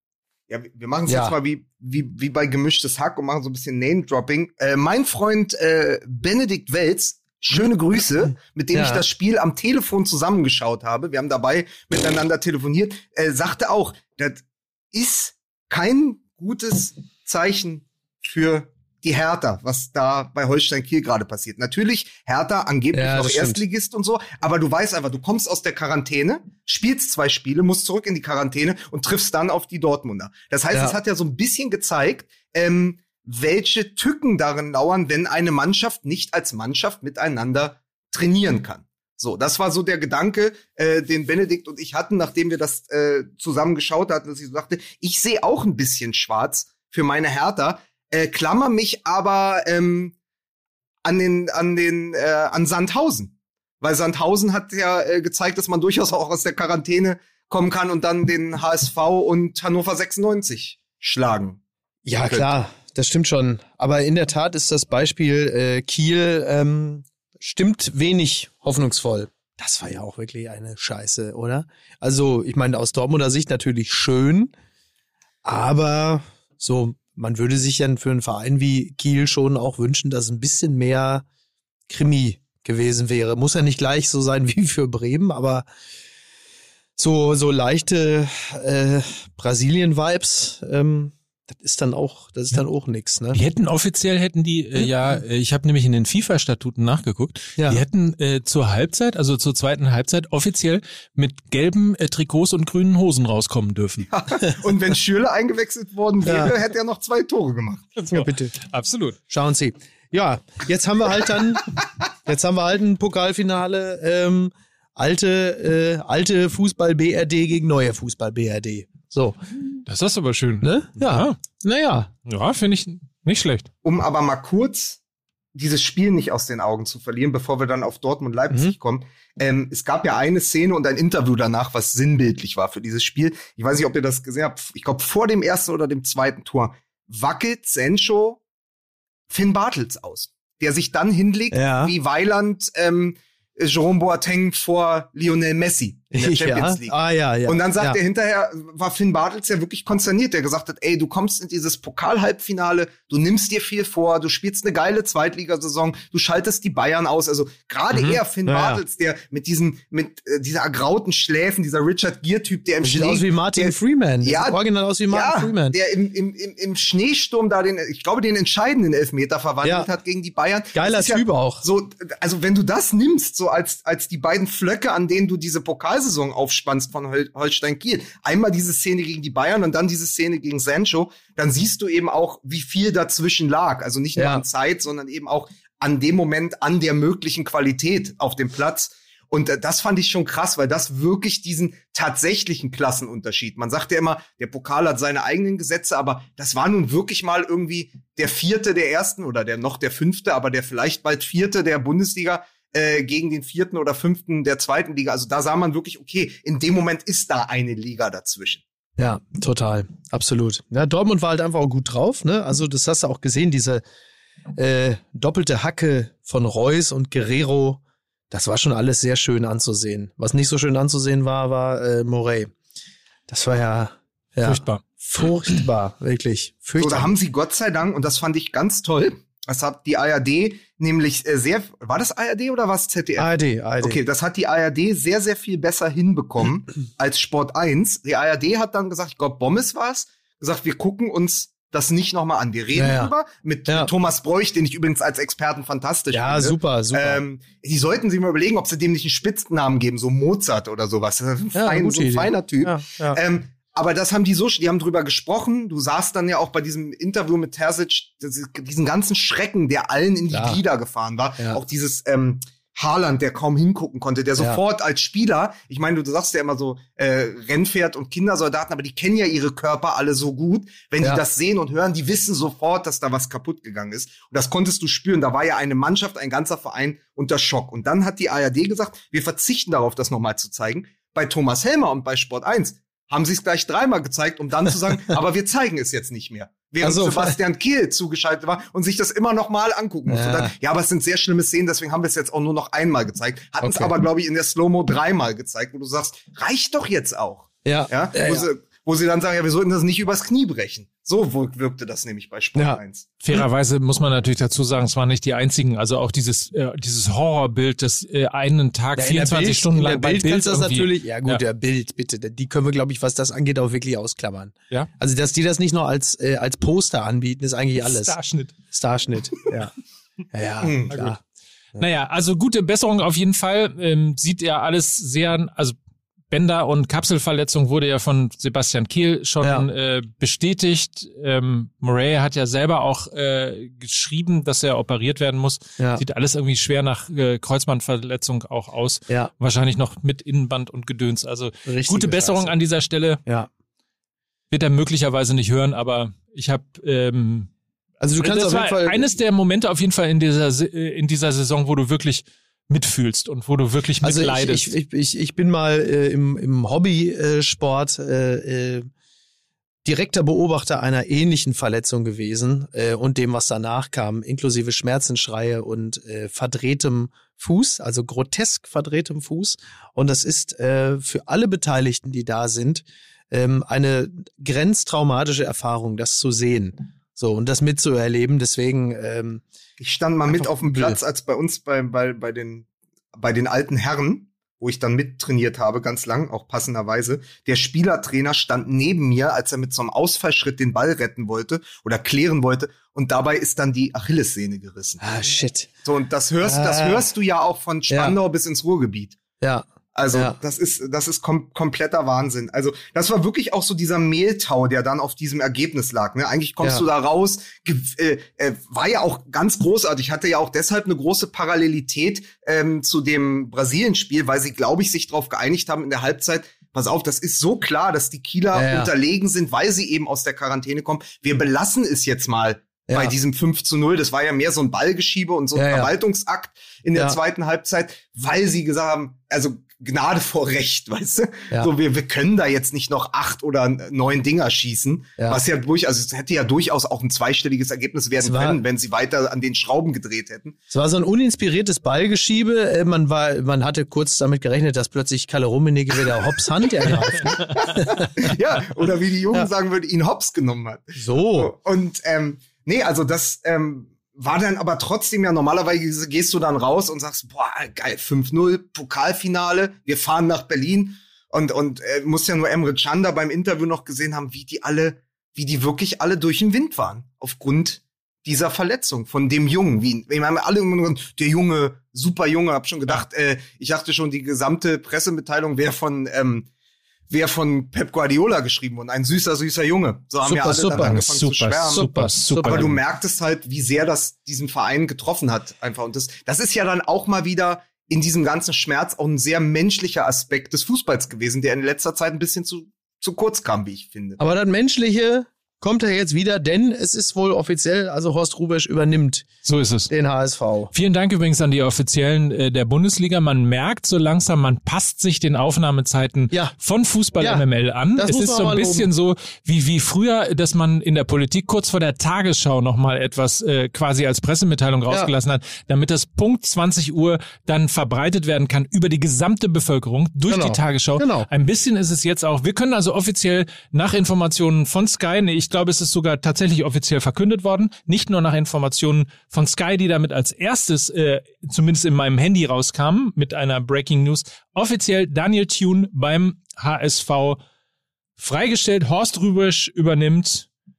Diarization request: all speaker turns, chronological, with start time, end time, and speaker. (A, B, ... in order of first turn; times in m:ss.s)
0:00.5-0:50.1 A
0:01.1-0:01.4 B
0:08.7-0:09.0 B
0:22.9-0:23.6 B
0:30.7-0:31.0 B
0:51.0-1:01.6 A
1:02.0-1:14.5 B
1:02.2-1:02.5 A
1:15.4-1:21.2 B
1:21.9-1:25.7 B
1:27.0-1:33.4 B
1:33.3-1:44.1 C
1:37.6-1:37.8 B
1:44.1-1:48.0 A
1:46.2-1:46.5 B
1:48.0-1:49.2 C
1:48.1-1:48.5 B
1:49.3-1:51.7 B
1:52.2-1:59.4 B
1:59.8-2:01.4 C
2:00.6-2:02.1 B
2:02.2-2:03.7 C
2:03.8-2:05.0 A
2:05.5-2:18.4 A
2:19.3-3:28.6 A
2:21.5-2:21.9 B
2:26.1-2:28.0 B
2:37.9-2:38.8 B
2:42.8-2:45.8 B
2:49.6-2:49.9 B
2:50.7-2:51.6 B
3:04.2-3:04.4 B
3:29.0-3:33.8 B
3:34.5-3:42.5 B
3:43.3-3:47.1 B
3:44.4-3:44.8 C
3:46.8-5:03.1 A
3:53.2-3:54.0 B
4:02.7-4:03.1 B
4:06.1-4:07.2 B
4:11.5-4:13.2 B
4:20.3-4:20.6 B
4:46.8-4:47.4 B
4:50.1-4:50.5 B
4:53.6-4:53.9 B
4:57.6-4:58.5 B
5:02.5-5:02.8 B
5:03.2-5:11.4 C
5:09.0-5:18.2 B
5:17.8-5:18.5 C
5:18.7-5:19.7 B
5:20.3-5:21.2 B
5:20.6-5:21.1 A
5:21.8-5:25.8 C
5:26.3-5:43.2 C
5:29.4-5:29.7 B
5:35.8-5:36.0 B
5:41.6-5:42.6 B
5:44.5-5:47.5 C
5:48.0-5:49.1 B
5:48.2-5:54.7 C
5:54.0-5:58.9 B
5:59.8-6:19.4 B
6:19.8-6:35.0 A
6:20.3-6:21.0 B
6:35.0-6:35.7 B
6:35.8-6:39.2 A
6:36.4-6:37.0 B
6:37.9-6:38.2 B
6:39.4-6:40.4 B
6:39.9-7:20.6 A
6:58.5-6:58.9 B
7:02.9-7:03.1 B
7:05.5-7:05.9 B
7:15.2-7:15.4 B
7:18.2-7:18.6 B
7:20.7-7:28.1 B
7:27.3-7:56.5 A
7:31.0-7:31.5 B
7:57.1-8:01.8 A
8:00.2-8:01.0 B
8:00.8-8:02.7 C
8:01.7-8:02.7 B
8:02.4-8:14.2 A
8:14.2-8:19.2 B
8:19.4-8:19.9 C
8:19.9-8:20.7 B
8:20.7-8:57.4 C
8:27.2-8:27.4 B
8:28.0-8:28.9 B
8:40.3-8:41.3 B
8:58.2-9:00.5 C